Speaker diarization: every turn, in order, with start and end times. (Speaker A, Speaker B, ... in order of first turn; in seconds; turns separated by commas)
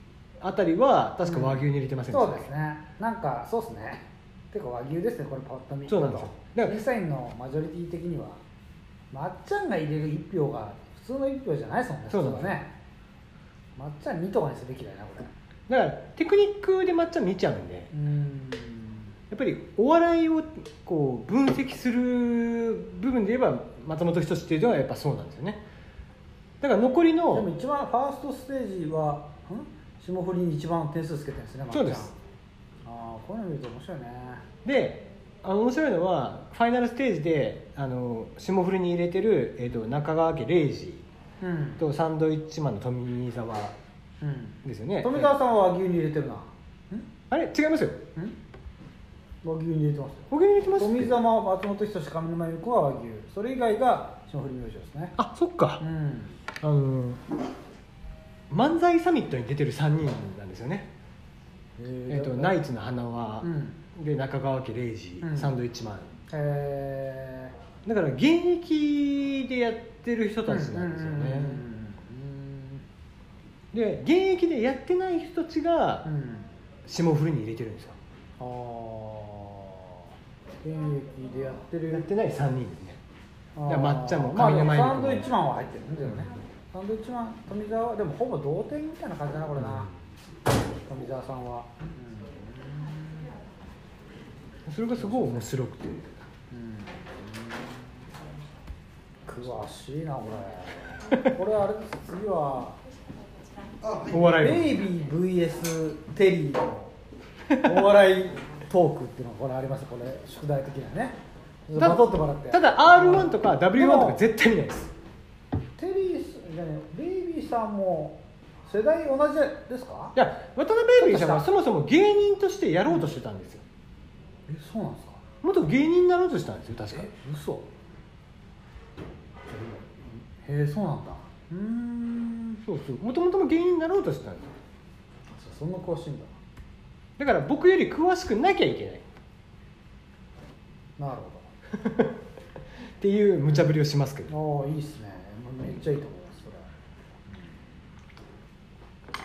Speaker A: 0.4-2.5, Speaker B: 1.2-8.4, Speaker A: 5.9-6.8, Speaker B: 9.1-12.7, Speaker A: 12.1-12.6, Speaker B: 13.8-15.3, Speaker A: 15.7-17.9, Speaker B: 17.9-19.1, Speaker A: 19.3-25.6, Speaker A: 26.6-27.5, Speaker B: 27.3-32.1, Speaker A: 31.7-32.1, Speaker B: 32.8-34.4, Speaker A: 34.6-41.0, Speaker B: 41.4-41.8, Speaker A: 41.8-43.7, Speaker B: 44.2-47.1, Speaker A: 44.6-45.4, Speaker A: 47.3-48.0, Speaker B: 49.4-55.1, Speaker A: 50.3-51.1, Speaker A: 55.2-55.8, Speaker B: 55.8-56.4, Speaker A: 56.6-57.2, Speaker A: 58.5-60.9, Speaker B: 61.8-62.6, Speaker A: 62.1-66.1, Speaker B: 63.4-63.8, Speaker B: 65.2-65.5, Speaker B: 66.3-67.5, Speaker A: 67.8-71.6, Speaker B: 70.5-72.8, Speaker A: 73.7-76.1, Speaker B: 76.0-76.5, Speaker A: 76.8-78.0, Speaker B: 78.4-80.0, Speaker B: 80.6-82.1, Speaker A: 81.9-83.0, Speaker B: 83.5-89.9, Speaker A: 83.7-85.3, Speaker A: 86.0-86.3, Speaker A: 89.6-89.9, Speaker B: 90.9-93.4, Speaker A: 94.7-96.2, Speaker B: 95.0-95.5, Speaker B: 96.5-98.0, Speaker B: 99.2-102.8, Speaker B: 103.9-106.9, Speaker A: 104.0-104.8, Speaker B: 107.6-111.2, Speaker B: 111.7-114.2, Speaker A: 111.8-114.9, Speaker B: 115.8-120.1, Speaker A: 120.1-123.6, Speaker B: 121.0-121.5, Speaker B: 124.5-125.2, Speaker A: 125.4-127.1, Speaker B: 126.9-127.7, Speaker B: 129.5-132.6, Speaker A: 132.6-134.5, Speaker B: 135.3-136.4, Speaker A: 137.2-139.1, Speaker B: 141.0-141.5, Speaker A: 141.8-142.1, Speaker A: 143.0-144.3, Speaker B: 143.5-143.7, Speaker B: 144.3-146.7, Speaker B: 147.3-147.6